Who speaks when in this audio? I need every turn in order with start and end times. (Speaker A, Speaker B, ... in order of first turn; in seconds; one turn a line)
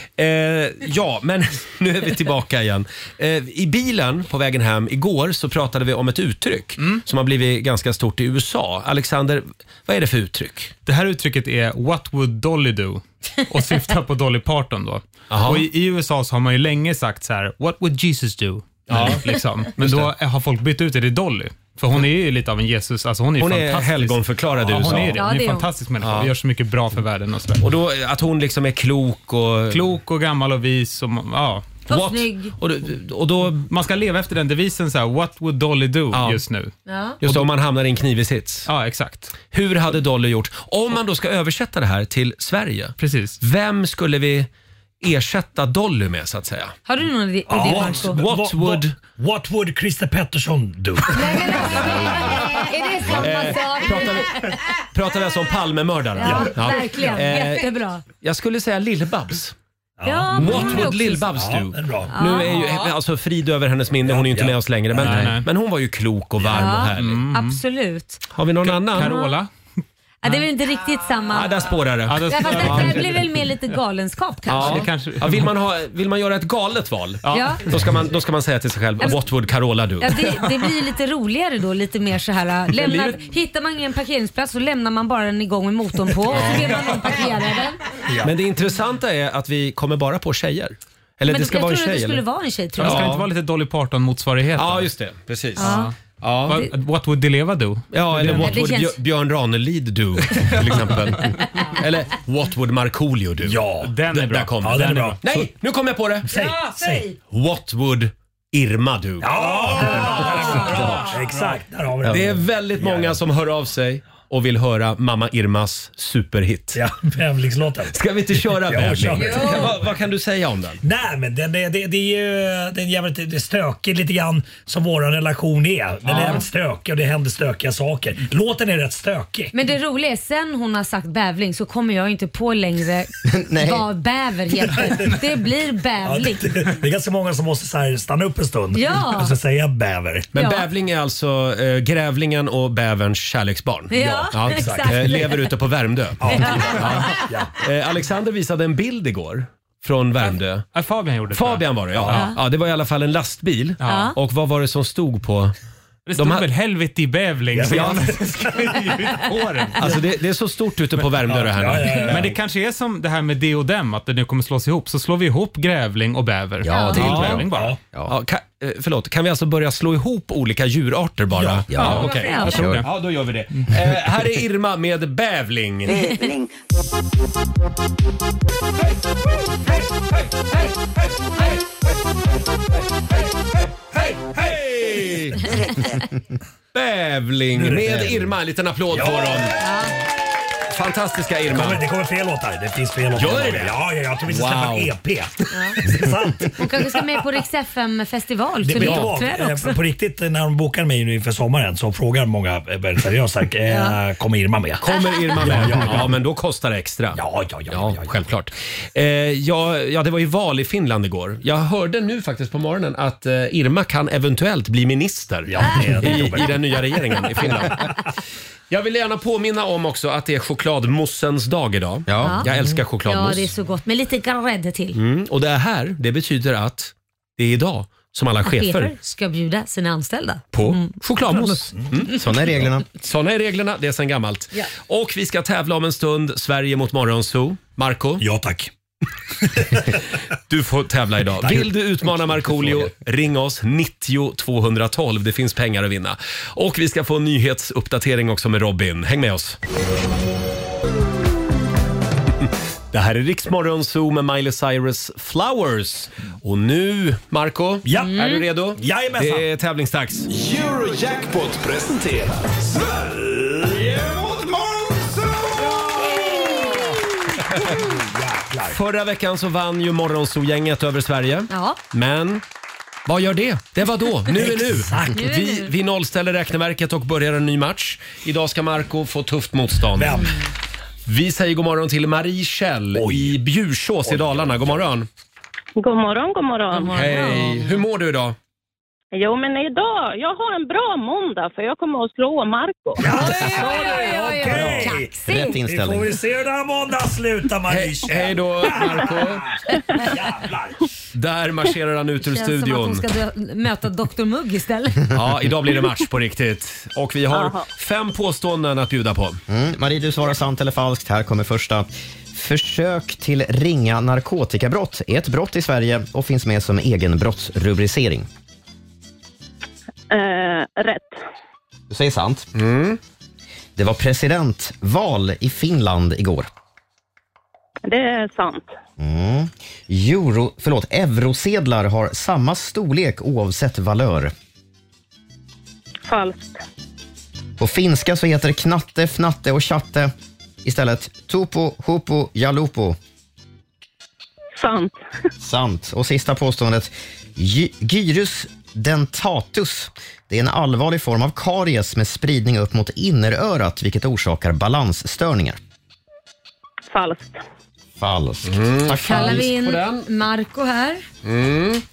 Speaker A: 0.2-10.7
Speaker B: 10.8-27.6
Speaker A: 15.3-15.7
Speaker A: 18.9-19.2
Speaker A: 19.8-20.1
Speaker A: 23.4-25.2
Speaker C: 25.1-25.7
Speaker A: 26.0-26.3
Speaker A: 27.6-29.9
Speaker B: 29.7-31.8
Speaker C: 31.9-32.5
Speaker A: 31.9-33.7
Speaker B: 33.7-37.5
Speaker A: 36.1-36.4
Speaker C: 36.9-37.2
Speaker A: 37.2-38.7
Speaker B: 38.6-39.3
Speaker A: 39.5-44.5
Speaker B: 43.0-43.4
Speaker A: 45.0-46.7
Speaker C: 46.9-48.2
Speaker D: 47.5-52.5
Speaker A: 47.7-49.0
Speaker C: 51.1-54.6
Speaker A: 51.7-59.5
Speaker C: 56.2-58.0
Speaker D: 56.2-57.2
Speaker D: 60.0-62.1
Speaker C: 60.0-61.3
Speaker A: 60.3-67.2
Speaker C: 62.1-62.9
Speaker D: 64.0-65.3
Speaker B: 65.0-65.5
Speaker C: 66.5-68.2
Speaker B: 67.0-67.6
Speaker A: 68.3-69.2
Speaker B: 68.6-69.5
Speaker C: 69.0-69.4
Speaker C: 70.2-71.7
Speaker A: 71.3-73.0
Speaker B: 72.0-73.3
Speaker C: 72.3-74.9
Speaker A: 74.5-80.2
Speaker B: 74.5-75.5
Speaker B: 77.2-77.6
Speaker C: 77.3-77.6
Speaker C: 80.0-87.8
Speaker A: 82.8-83.2
Speaker A: 86.3-86.7
Speaker D: 88.1-88.3
Speaker A: 88.2-92.2
Speaker C: 91.3-93.1
Speaker B: 92.8-94.9
Speaker A: 92.8-93.3
Speaker A: 94.5-96.6
Speaker B: 95.5-98.6
Speaker C: 95.6-95.9
Speaker A: 97.9-106.3
Speaker C: 98.2-99.0
Speaker B: 100.4-101.0
Speaker C: 101.4-101.7
Speaker D: 103.4-104.0
Speaker B: 103.8-105.2
Speaker D: 104.6-105.4
Speaker D: 106.2-107.1
Speaker A: 107.3-111.1
Speaker D: 109.2-113.2
Speaker A: 112.1-116.8
Speaker D: 116.7-119.9
Speaker A: 117.9-120.8
Speaker C: 119.3-119.7
Speaker D: 120.8-129.5
Speaker A: 126.1-126.4
Speaker C: 126.1-126.4
Speaker C: 129.5-136.7
Speaker E: 133.2-133.9
Speaker D: 136.0-140.3
Speaker C: 138.7-139.3
Speaker A: 140.3-150.7
Speaker C: 140.3-140.7
Speaker C: 143.9-145.5
Speaker D: 143.9-145.3
Speaker D: 146.2-147.6
Speaker C: 146.3-147.2
Speaker B: 150.7-152.3
Speaker A: 151.3-155.5
Speaker B: 153.8-154.1
Speaker C: 153.8-154.2
Speaker B: 156.1-159.9
Speaker A: 156.2-156.5
Speaker D: 157.5-159.0
Speaker A: 157.6-158.1
Speaker A: 159.8-162.3
Speaker D: 161.2-162.4
Speaker B: 162.1-167.8
Speaker E: 166.6-168.1
Speaker C: 166.7-167.0
Speaker A: 166.9-167.4
Speaker D: 167.2-167.8
Speaker A: 168.1-176.1
Speaker D: 171.3-171.7
Speaker E: 171.7-172.8
Speaker B: 171.8-172.9
Speaker C: 171.8-172.6
Speaker C: 175.9-176.3
Speaker D: 183.9-184.4
Speaker A: 184.3-185.6
Speaker A: 186.7-189.6
Speaker D: 187.5-188.3
Speaker D: 188.9-189.6
Speaker C: 189.6-190.0
Speaker A: 190.7-191.8
Speaker D: 191.5-197.1
Speaker A: 193.1-194.9
Speaker C: 196.6-199.8
Speaker D: 198.6-206.2
Speaker A: 198.7-199.1
Speaker C: 203.7-203.9
Speaker A: 204.8-218.0
Speaker D: 207.1-208.2
Speaker D: 215.5-217.7
Speaker A: 218.7-223.5
Speaker E: 222.1-222.5
Speaker C: 222.2-222.5
Speaker C: 223.0-225.0
Speaker A: 224.9-228.9
Speaker C: 228.4-230.9
Speaker A: 230.5-232.2
Speaker E: 232.1-232.8
Speaker A: 233.0-238.2
Speaker D: 238.2-238.7
Speaker D: 239.4-240.0
Speaker A: 240.5-249.6
Speaker D: 241.4-242.8
Speaker A: 252.9-260.3
Speaker D: 257.8-258.2
Speaker C: 258.0-258.4
Speaker D: 258.7-259.4
Speaker F: 260.3-266.5
Speaker D: 265.7-267.0
Speaker C: 266.0-267.0
Speaker D: 267.5-268.8
Speaker A: 268.7-272.4
Speaker C: 271.5-271.8
Speaker A: 273.1-280.3
Speaker D: 274.3-275.2
Speaker C: 275.1-275.7
Speaker D: 279.9-280.4
Speaker A: 281.1-285.1
Speaker D: 282.9-283.4
Speaker D: 284.0-284.9
Speaker G: 285.8-287.2
Speaker C: 286.7-287.5
Speaker A: 286.9-288.4
Speaker G: 289.1-293.0
Speaker D: 293.0-300.8
Speaker C: 293.0-295.6
Speaker E: 294.5-296.2
Speaker A: 297.7-299.6
Speaker A: 301.1-303.0
Speaker C: 302.2-305.1
Speaker A: 305.1-309.4
Speaker G: 307.3-307.6
Speaker E: 309.5-318.3
Speaker G: 320.1-321.2
Speaker E: 321.9-322.5
Speaker A: 322.5-323.0
Speaker E: 323.8-326.5
Speaker G: 327.8-328.7
Speaker E: 329.0-334.3
Speaker G: 336.1-336.6
Speaker E: 337.6-340.1
Speaker E: 340.6-343.0
Speaker G: 344.6-344.9
Speaker E: 345.4-355.6
Speaker G: 356.9-357.4
Speaker E: 358.0-359.4
Speaker A: 358.5-360.1
Speaker C: 359.0-361.0
Speaker A: 361.2-361.8